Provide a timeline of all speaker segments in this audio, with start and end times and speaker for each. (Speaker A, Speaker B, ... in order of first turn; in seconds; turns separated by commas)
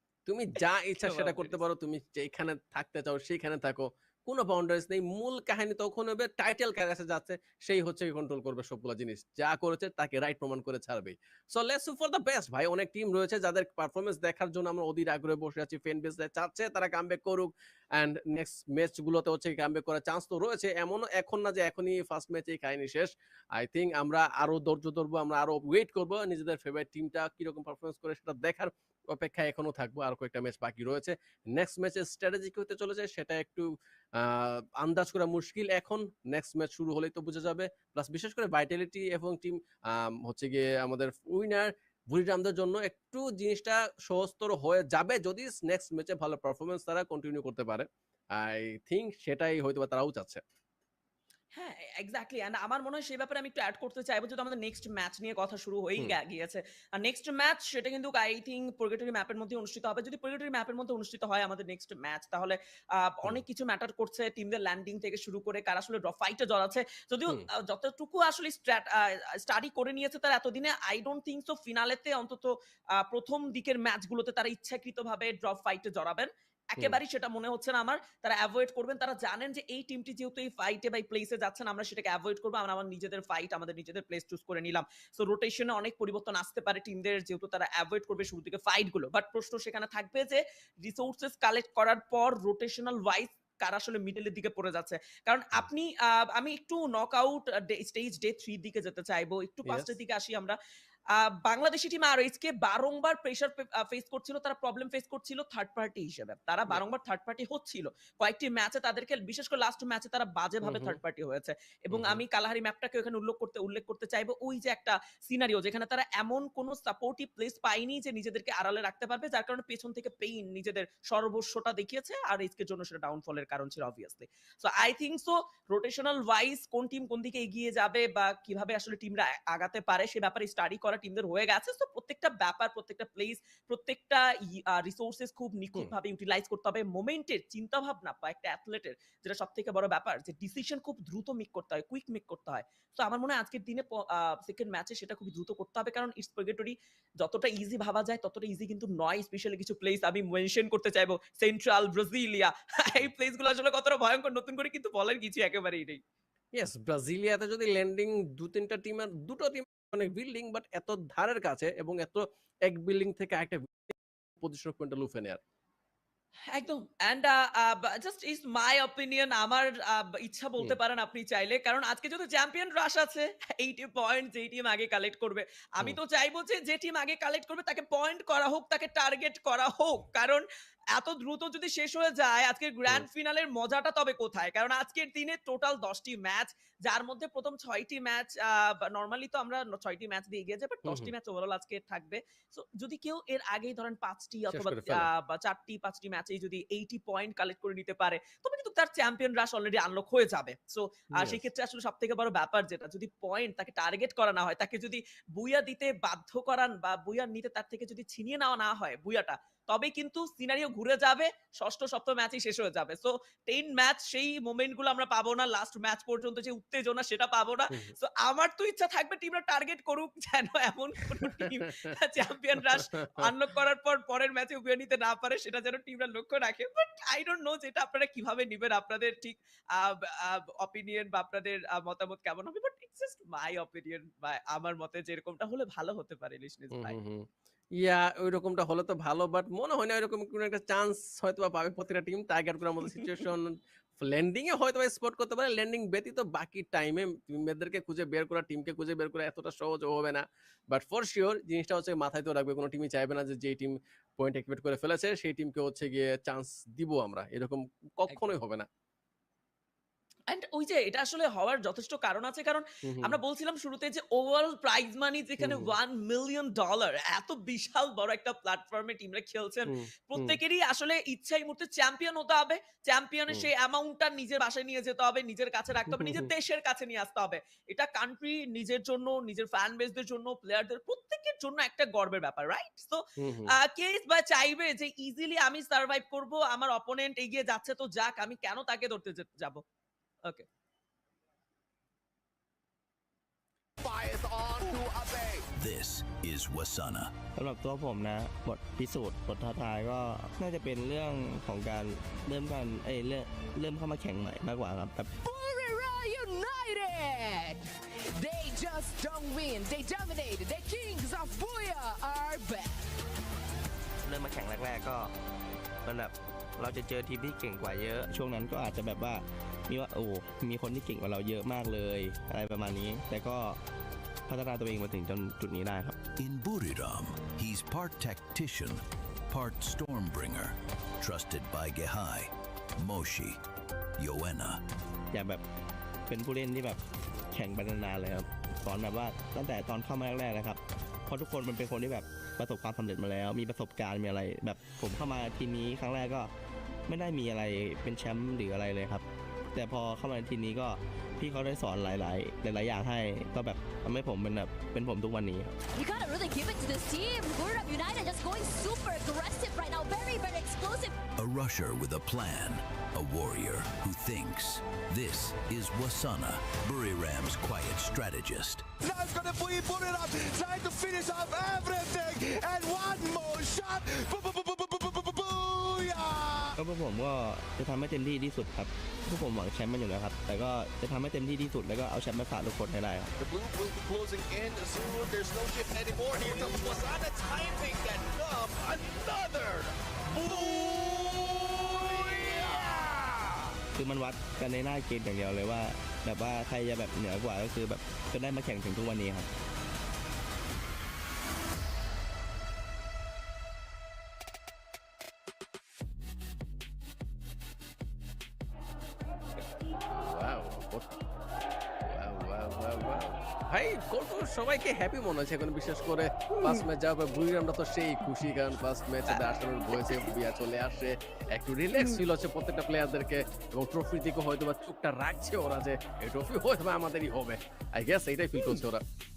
Speaker A: 0.2-50.4, Speaker B: 1.0-1.6, Speaker B: 51.5-100.5, Speaker A: 99.7-99.9, Speaker B: 101.1-156.0, Speaker A: 110.6-111.0, Speaker A: 111.9-112.2, Speaker A: 156.5-165.4, Speaker B: 166.5-180.4, Speaker B: 180.9-237.0, Speaker A: 190.8-191.1, Speaker A: 194.5-195.1, Speaker A: 221.1-221.6, Speaker A: 222.6-223.3, Speaker A: 236.7-258.7, Speaker B: 260.3-289.6, Speaker A: 262.8-263.2, Speaker A: 265.4-265.7, Speaker A: 269.7-270.4, Speaker A: 275.9-276.3, Speaker A: 283.2-283.5, Speaker C: 293.8-295.4, Speaker D: 295.6-297.1, Speaker E: 297.4-305.1, Speaker F: 305.2-312.9, Speaker E: 314.0-315.1, Speaker E: 315.8-323.6, Speaker E: 324.3-326.0, Speaker D: 326.2-333.4, Speaker D: 334.0-334.6, Speaker E: 335.1-335.4, Speaker E: 336.1-336.8, Speaker E: 337.3-346.3, Speaker E: 346.9-355.5, Speaker G: 355.7-361.0, Speaker D: 361.1-368.6, Speaker C: 368.8-376.6, Speaker E: 376.6-383.1, Speaker C: 383.2-393.5, Speaker E: 393.7-399.3, Speaker A: 409.9-410.9, Speaker A: 411.8-428.8